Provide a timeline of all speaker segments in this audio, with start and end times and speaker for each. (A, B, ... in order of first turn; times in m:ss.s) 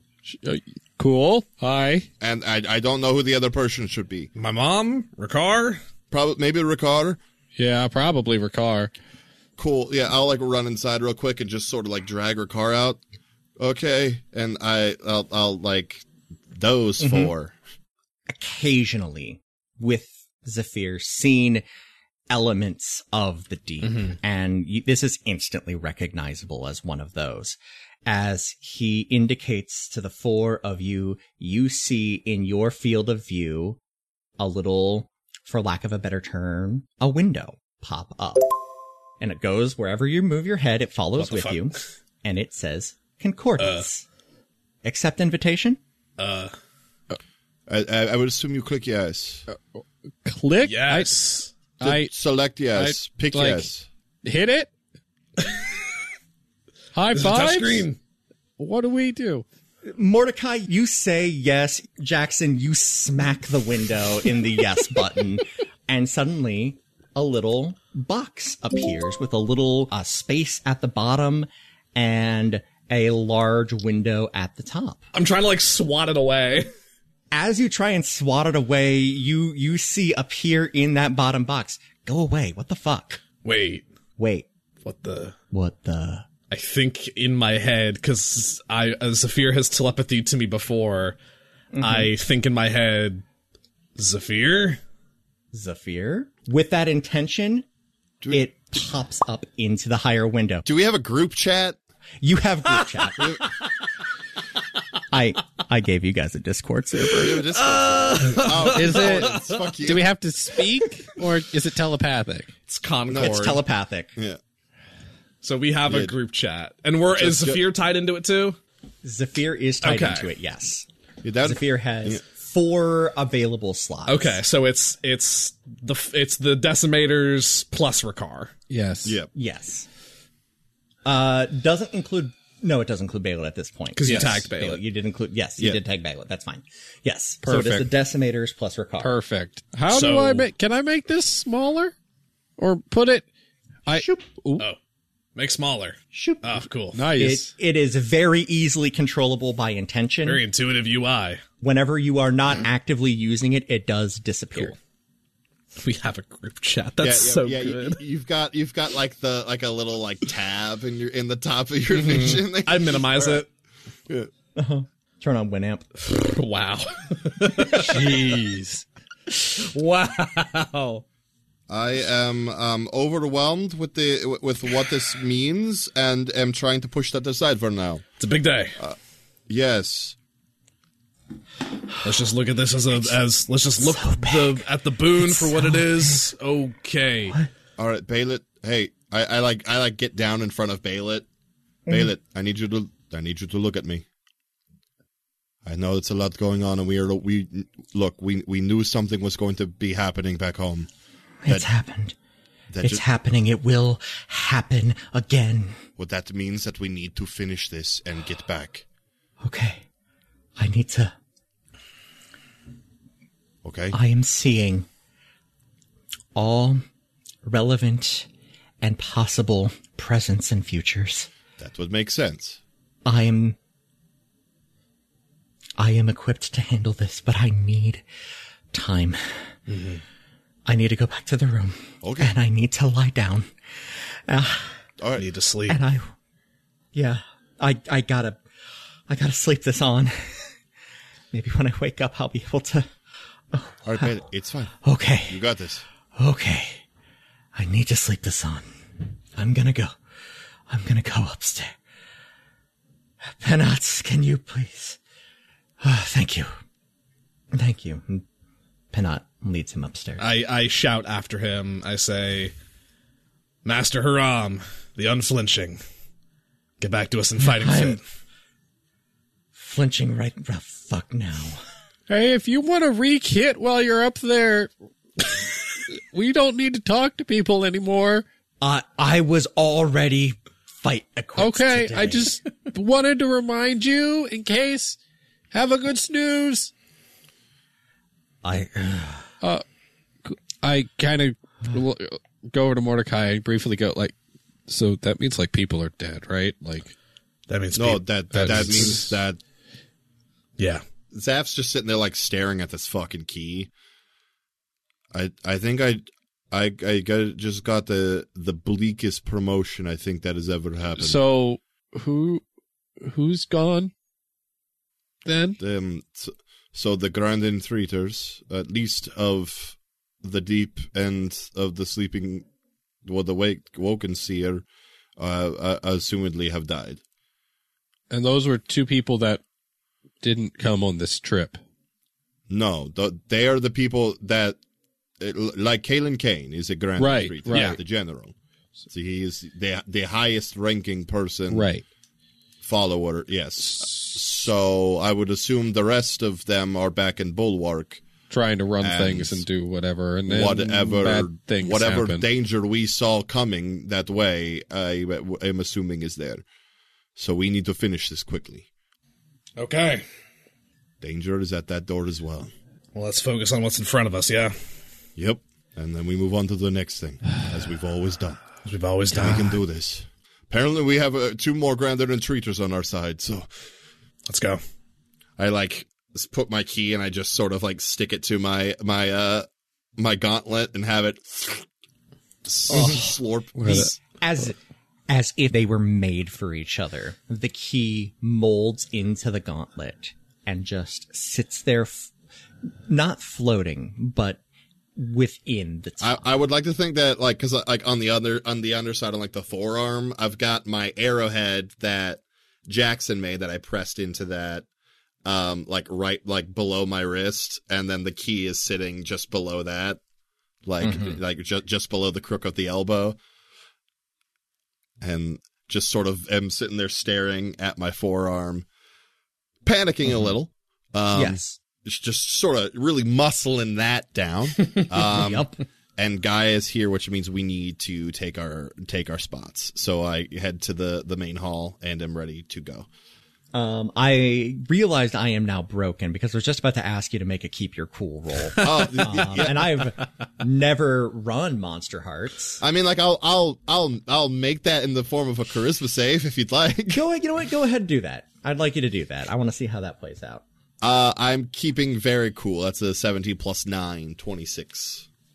0:00.3-0:02.1 A
0:02.2-0:04.3 B
0:04.4-0:05.8 C
0:06.1-0:07.2 B
0:07.6-0:08.9 A
0:09.6-0:13.0 B
0:13.6-0:17.6 B
0:17.0-0:17.3 D
0:18.3-0:21.6 D
0:22.3-0:33.8 D
0:34.4-0:38.5 D
0:39.2-0:44.0 D
0:41.2-0:41.8 C
0:43.6-0:43.8 C
0:44.8-0:45.8 D
0:46.2-0:46.5 C
0:47.7-0:49.5 B
0:49.5-0:51.1 A
0:50.6-0:51.5 C
0:51.8-0:52.1 A
0:51.8-0:53.9 B
0:52.8-0:53.7 A
0:54.2-0:54.7 A
0:55.4-0:55.7 C
0:57.0-0:57.9 A
0:57.1-0:58.0 C
0:58.6-0:59.4 A
0:59.9-1:15.0 D
1:15.1-1:16.7 C
1:17.3-1:23.2 D
1:23.4-1:23.8 C
1:24.2-1:24.5 D
1:24.8-1:25.4 C
1:25.5-1:26.3 D
1:26.5-1:31.2 C
1:31.7-1:32.1 D
1:31.8-1:33.2 C
1:34.0-1:34.8 C
1:35.5-1:37.7 D
1:38.3-1:40.7 D
1:40.7-1:41.8 B
1:42.2-1:43.5 D
1:45.1-1:47.5 D
1:47.1-1:50.1 B
1:47.6-1:49.6 C
1:48.7-1:52.5 A
1:52.7-1:53.6 C
1:53.1-1:53.6 B
1:53.1-1:54.2 D
1:55.4-1:58.6 C
1:55.9-1:56.1 B
1:57.2-1:57.6 B
1:59.0-2:00.9 D
1:59.8-2:00.3 C
2:01.2-2:02.2 B
2:01.4-2:04.4 D
2:04.1-2:08.5 C
2:08.7-2:09.2 A
2:09.0-2:09.3 B
2:09.3-2:09.9 D
2:11.0-2:19.1 D
2:14.0-2:14.8 C
2:14.1-2:14.4 A
2:17.4-2:17.9 A
2:19.0-2:21.9 A
2:19.9-2:20.5 C
2:22.6-2:23.3 A
2:23.9-2:24.7 A
2:23.9-2:24.3 D
2:25.4-2:27.0 C
2:26.1-2:30.4 D
2:26.9-2:27.5 A
2:30.2-2:31.4 C
2:31.6-2:34.8 D
2:35.8-2:38.0 C
2:37.0-2:43.4 B
2:42.0-2:43.5 C
2:44.6-2:45.9 D
2:46.0-2:48.4 C
2:47.7-2:48.8 A
2:49.3-2:51.0 C
2:51.7-2:58.0 B
2:58.2-2:58.8 C
2:59.5-3:00.2 B
3:02.0-3:07.4 C
3:03.8-3:04.6 D
3:05.2-3:06.2 D
3:07.8-3:11.3 B
3:11.9-3:14.0 B
3:15.6-3:20.9 B
3:21.4-3:22.2 D
3:22.7-3:23.0 B
3:22.8-3:25.8 D
3:26.0-3:28.8 B
3:29.4-3:29.8 D
3:30.6-3:31.2 D
3:33.6-3:34.0 B
3:33.9-3:34.9 D
3:36.4-3:36.8 D
3:37.4-3:38.3 D
3:38.8-3:41.3 D
3:41.6-3:42.6 B
3:43.1-3:43.6 D
3:45.8-3:48.0 D
3:48.7-3:49.3 D
3:49.7-3:50.0 C
3:50.7-3:53.5 D
3:52.0-3:52.3 B
3:54.3-3:54.8 D
3:55.0-3:55.3 B
3:55.2-3:55.8 C
3:55.7-3:56.1 D
3:56.9-3:58.4 D
3:59.1-4:00.5 D
4:01.3-4:02.9 D
4:03.5-4:04.2 D
4:03.8-4:04.8 B
4:04.8-4:05.4 D
4:05.3-4:05.8 B
4:06.2-4:06.8 D
4:07.6-4:08.7 D
4:09.4-4:10.0 D
4:10.7-4:11.8 D
4:13.4-4:15.0 D
4:15.8-4:16.5 D
4:17.5-4:18.2 D
4:18.9-4:20.2 D
4:20.2-4:22.5 C
4:23.6-4:25.8 C
4:26.8-4:28.0 C
4:27.4-4:28.0 D
4:29.6-4:31.6 D
4:32.1-4:34.7 A
4:36.0-4:38.2 A
4:38.6-4:42.4 D
4:41.4-4:45.0 A
4:45.5-4:46.7 A
4:48.4-4:49.3 D
4:50.2-4:54.2 A
4:54.7-4:56.9 A
4:57.5-4:59.1 C
4:57.8-4:59.4 B
4:58.3-4:59.0 A
5:01.1-5:03.7 B
5:05.1-5:11.2 B
5:11.0-5:12.4 A
5:13.0-5:13.9 A
5:15.2-5:15.6 A
5:15.6-5:22.5 B
5:23.0-5:24.6 B
5:25.2-5:27.0 B
5:28.1-5:29.4 A
5:30.2-5:31.6 A
5:32.5-5:34.6 B
5:35.2-5:38.3 B
5:37.0-5:37.8 A
5:37.5-5:37.8 C
5:38.9-5:41.7 B
5:41.5-5:41.8 A
5:42.6-5:48.0 B
5:48.3-5:52.2 A
5:48.8-5:49.4 B
5:50.3-5:56.4 B
5:57.2-5:58.7 B
5:59.6-6:00.0 C
6:01.0-6:02.5 B
6:03.0-6:04.5 C
6:05.2-6:08.5 B
6:08.6-6:09.6 C
6:09.1-6:13.5 B
6:14.3-6:14.6 C
6:15.4-6:21.7 B
6:22.4-6:23.9 B
6:22.7-6:23.1 D
6:23.6-6:23.9 A
6:23.7-6:24.6 D
6:25.1-6:32.1 D
6:32.9-6:34.4 D
6:35.0-6:36.3 D
6:36.0-6:44.7 B
6:45.2-6:50.0 B
6:50.6-6:53.2 B
6:50.8-6:51.2 D
6:55.0-6:58.7 B
6:59.6-7:12.9 B
7:01.1-7:01.6 D
7:04.9-7:05.6 D
7:13.5-7:22.6 D
7:18.6-7:19.1 C
7:18.6-7:19.7 B
7:22.6-7:27.0 B
7:26.9-7:30.4 D
7:30.8-7:35.1 B